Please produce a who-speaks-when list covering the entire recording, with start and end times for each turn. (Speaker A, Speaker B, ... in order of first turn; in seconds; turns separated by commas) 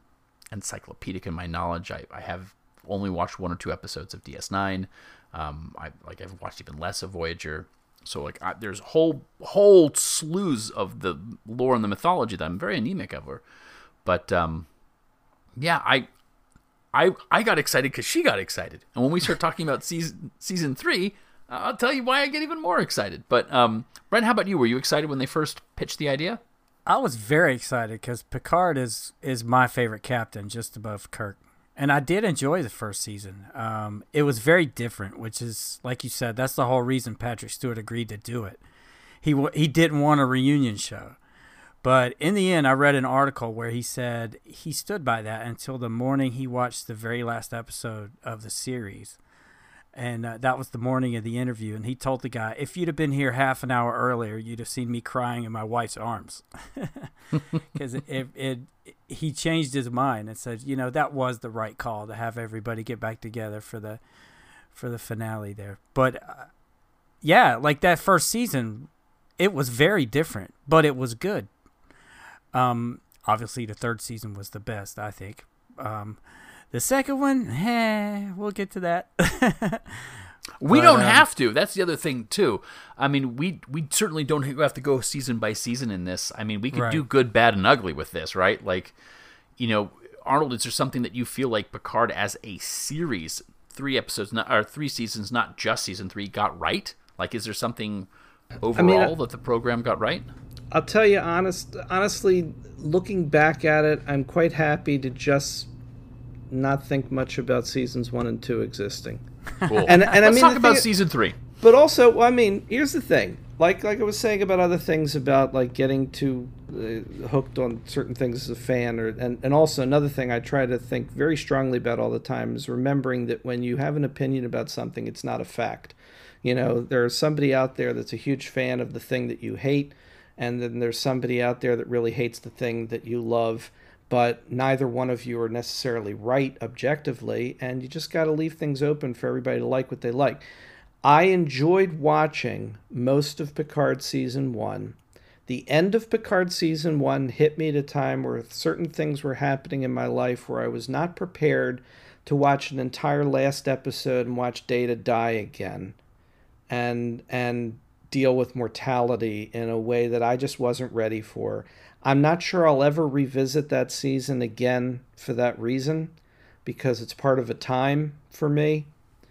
Speaker A: 0.5-13.4, Speaker A: 14.0-14.7, Speaker A: 15.6-16.1, Speaker A: 16.9-26.4, Speaker B: 26.9-38.6, Speaker B: 39.2-41.1, Speaker B: 41.8-49.2, Speaker B: 49.9-57.1, Speaker B: 57.7-64.0, Speaker B: 64.7-66.5, Speaker B: 67.2-71.5, Speaker B: 72.5-76.2, Speaker B: 76.7-80.2, Speaker A: 80.6-88.9, Speaker B: 80.7-81.2, Speaker B: 86.7-87.0, Speaker A: 89.6-98.1, Speaker A: 98.6-100.3, Speaker C: 98.7-99.1, Speaker C: 100.7-105.7, Speaker C: 106.5-109.2, Speaker A: 109.7-111.4, Speaker C: 109.8-110.9, Speaker C: 111.6-140.4, Speaker C: 141.0-155.9, Speaker C: 156.7-168.9